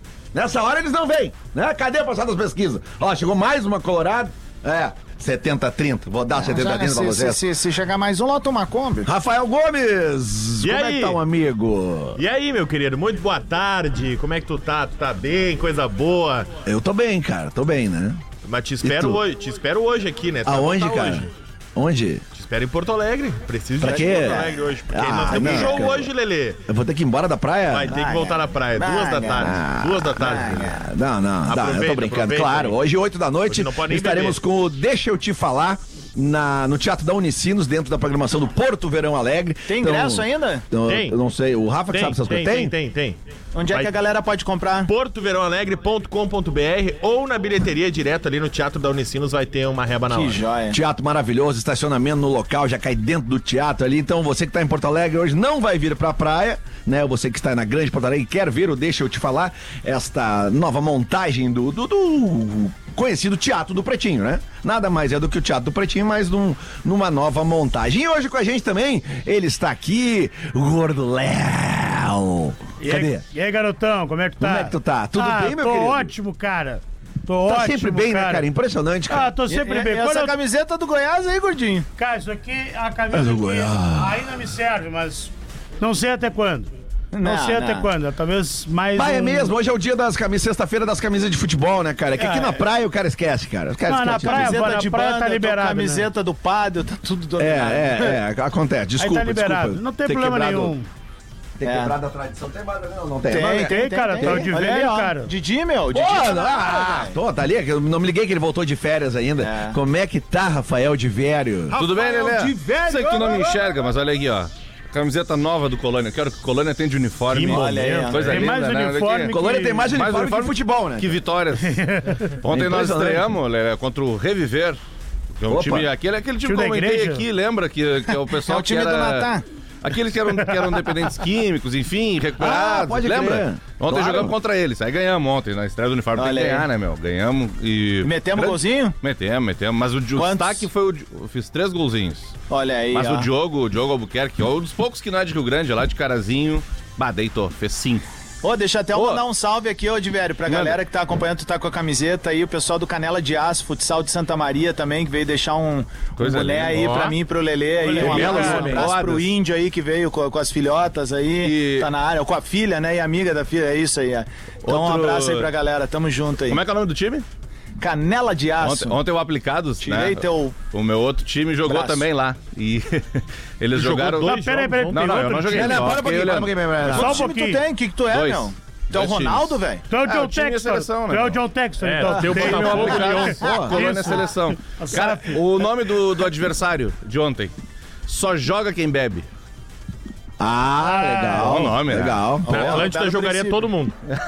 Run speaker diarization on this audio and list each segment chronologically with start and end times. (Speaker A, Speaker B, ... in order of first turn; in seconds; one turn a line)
Speaker A: 0.3-7.4
Speaker B: 6.3-9.1
Speaker A: 9.0-12.2
Speaker C: 10.6-11.2
Speaker C: 12.2-16.5
Speaker A: 16.6-18.2
Speaker C: 18.4-21.3
Speaker A: 18.8-19.2
Speaker A: 20.4-22.2
Speaker C: 22.3-26.6
Speaker A: 23.8-26.1
Speaker B: 23.8-24.5
Speaker B: 25.3-25.9
Speaker A: 26.7-27.9
Speaker C: 27.7-30.7
Speaker B: 27.9-29.5
Speaker A: 29.3-42.7
Speaker B: 30.1-30.8
Speaker C: 31.4-32.8
Speaker C: 33.5-34.4
Speaker B: 39.7-40.6
Speaker C: 40.9-41.2
Speaker C: 41.9-43.2
Speaker B: 43.5-44.9
Speaker C: 44.9-50.4
Speaker B: 50.1-50.8
Speaker A: 50.7-73.2
Speaker D: 72.8-78.5
Speaker A: 74.4-76.1
Speaker A: 77.4-79.3
Speaker D: 79.1-80.3
Speaker B: 79.5-81.9
Speaker D: 82.0-86.7
Speaker A: 83.1-84.2
Speaker B: 87.1-87.9
Speaker D: 87.2-89.5
Speaker A: 89.0-94.6
Speaker D: 92.2-92.6
Speaker D: 93.9-96.1
Speaker B: 94.2-98.2
Speaker A: 97.4-100.7
Speaker D: 99.0-100.9
Speaker A: 101.6-104.6
Speaker B: 101.6-101.9
Speaker B: 103.2-107.2
Speaker D: 103.4-105.3
Speaker A: 105.9-111.8
Speaker B: 109.4-109.8
Speaker B: 111.7-113.7
Speaker E: 111.7-119.3
Speaker C: 117.3-118.4
Speaker B: 117.5-118.4
Speaker D: 118.2-119.9
Speaker A: 119.3-121.2
Speaker E: 119.9-124.8
Speaker D: 121.6-122.3
Speaker A: 122.5-123.3
Speaker E: 125.4-129.3
Speaker A: 125.5-125.9
Speaker D: 126.4-127.2
Speaker B: 128.4-129.4
Speaker E: 129.8-142.3
Speaker A: 132.4-134.3
Speaker B: 136.1-136.7
Speaker B: 138.0-139.0
Speaker B: 140.1-140.7
Speaker B: 142.5-143.3
Speaker E: 142.9-148.1
Speaker B: 148.4-166.6
Speaker E: 148.9-149.2
Speaker E: 150.4-150.8
Speaker E: 156.2-157.0
Speaker C: 156.7-157.1
Speaker D: 157.8-158.8
Speaker E: 157.9-159.3
Speaker E: 161.4-161.9
Speaker E: 164.6-165.5
Speaker E: 166.4-167.2
Speaker B: 167.8-169.0
Speaker E: 168.6-177.0
Speaker B: 169.8-170.6
Speaker B: 171.6-172.1
Speaker C: 173.7-175.3
Speaker D: 174.2-176.0
Speaker A: 175.5-177.2
Speaker B: 176.8-179.8
Speaker D: 176.9-177.6
Speaker E: 178.1-181.4
Speaker D: 179.9-185.7
Speaker C: 181.8-184.0
Speaker A: 182.0-183.9
Speaker E: 182.2-187.5
Speaker E: 188.0-189.2
Speaker A: 190.4-192.8
Speaker E: 191.4-192.3
Speaker B: 192.4-193.7
Speaker C: 192.4-193.9